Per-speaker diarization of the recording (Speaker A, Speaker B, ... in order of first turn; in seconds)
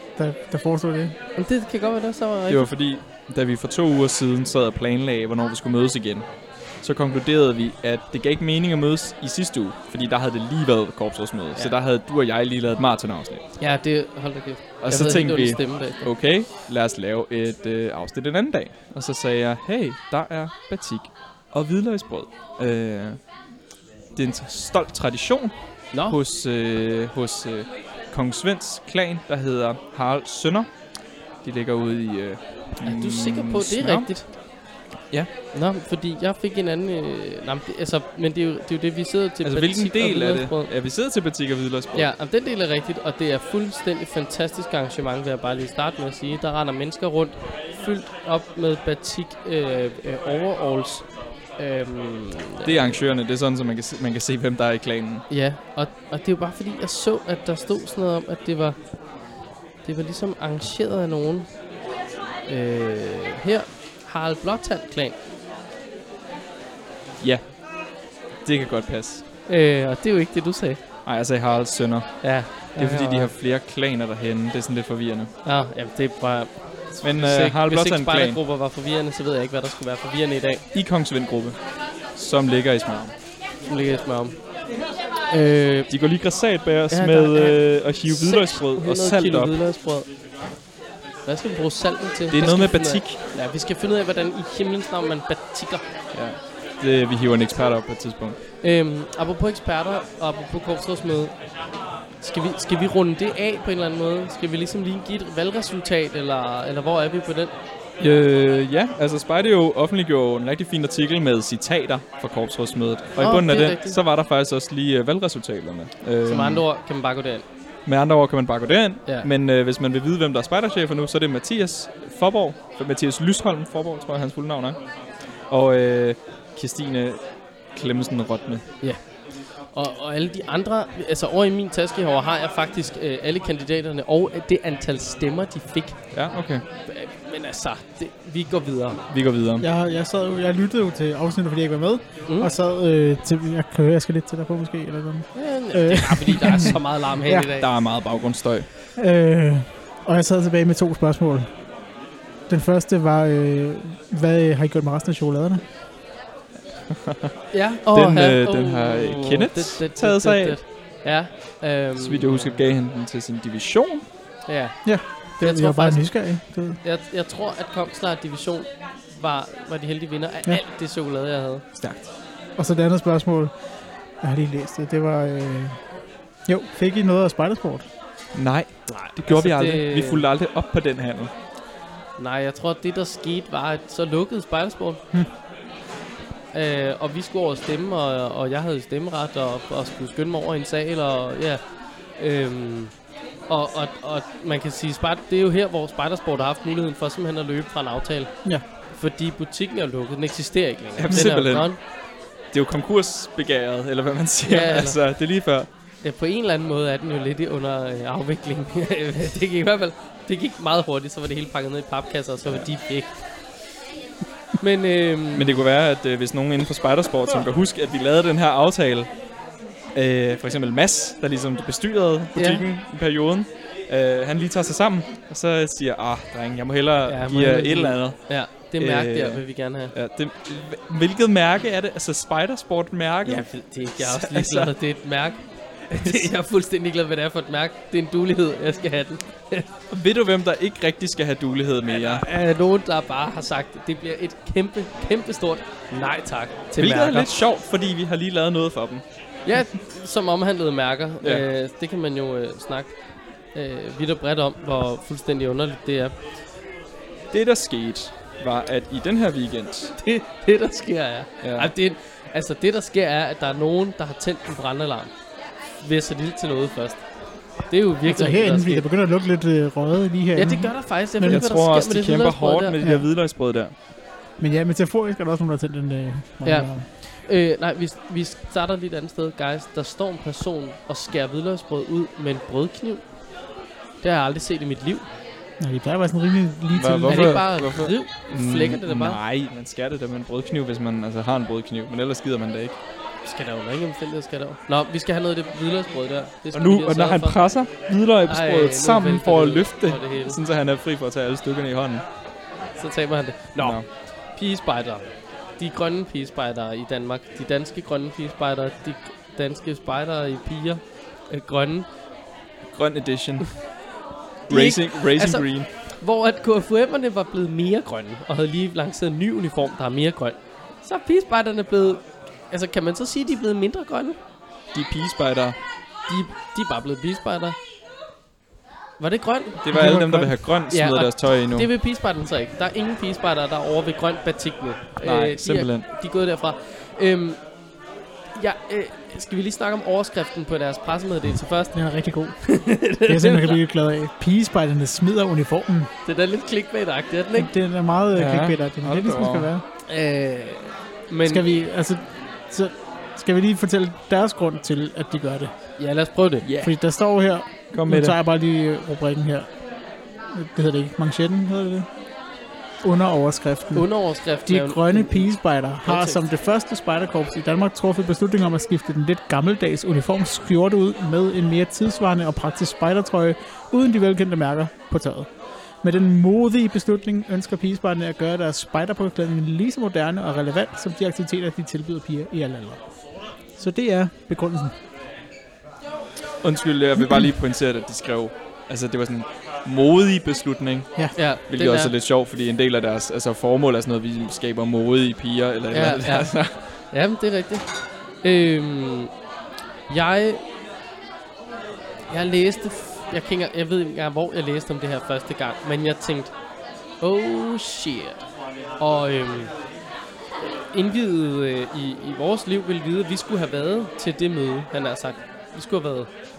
Speaker A: 0.1-1.1, 139.6-147.5, 149.0-151.7, 152.5-155.6, 164.8-166.8, 172.5-175.9, 176.4-177.9, 201.1-201.4, 268.1-271.5, 272.8-273.1, 274.4-276.9, 285.6-287.6, 329.7-330.4, 341.7-345.9, 347.3-349.6, 351.2-355.5, 356.6-361.9, 362.8-384.7
Speaker B: 1.4-2.8, 11.5-11.8, 13.6-16.1, 25.9-26.2, 32.8-34.3, 35.5-40.8, 41.9-53.0, 55.3-59.3, 59.8-61.6, 62.5-65.2, 69.5-70.8, 72.2-73.3, 75.4-80.6, 83.6-84.4, 85.3-86.4, 86.9-90.1, 91.2-95.8, 98.6-101.5, 102.2-107.5, 113.2-114.0, 116.3-117.5, 128.8-139.0, 142.3-142.5, 145.3-147.7, 157.5-162.6, 164.5-171.6, 178.9-180.2, 182.2-185.0, 186.5-201.8, 204.5-205.3, 206.0-213.6, 214.6-215.5, 222.3-222.7, 227.1-229.9, 233.2-239.7, 241.9-247.3, 249.4-256.1, 260.0-268.9, 270.4-272.8, 276.4-283.1, 284.0-285.1, 287.1-289.2, 293.2-297.7, 298.3-300.4, 302.7-311.9, 314.5-324.2, 326.1-327.6, 329.0-329.9, 330.7-337.5, 338.4-343.6, 346.0-347.5, 349.9-351.4, 355.8-356.4, 363.7-366.2, 391.1-391.9, 395.7-399.1, 399.9-400.4, 402.1-406.4, 407.0-408.2, 408.8-409.5, 410.7-416.2
Speaker C: 2.5-13.4, 14.8-23.3, 24.1-34.4, 39.4-42.1, 52.6-55.2, 67.2-69.2, 71.0-75.3, 77.0-78.4, 80.7-83.1, 85.9-89.6, 92.3-93.2, 96.1-98.4, 108.0-116.7, 117.8-128.6, 136.1-136.7, 139.1-139.7, 147.6-148.7, 157.9-160.6, 162.0-164.0, 171.8-172.1, 178.3-181.3, 201.0-202.0, 202.5-205.7, 215.3-219.2, 219.9-234.7, 236.0-236.3, 239.9-242.2, 246.8-249.0, 257.3-259.9, 261.4-261.7, 271.1-273.7, 286.7-292.8, 296.5-302.0, 303.6-303.9, 312.7-313.7, 314.5-315.7, 324.7-325.6, 329.6-331.7, 335.0-335.9, 348.1-349.5, 356.4-358.1, 386.4-396.7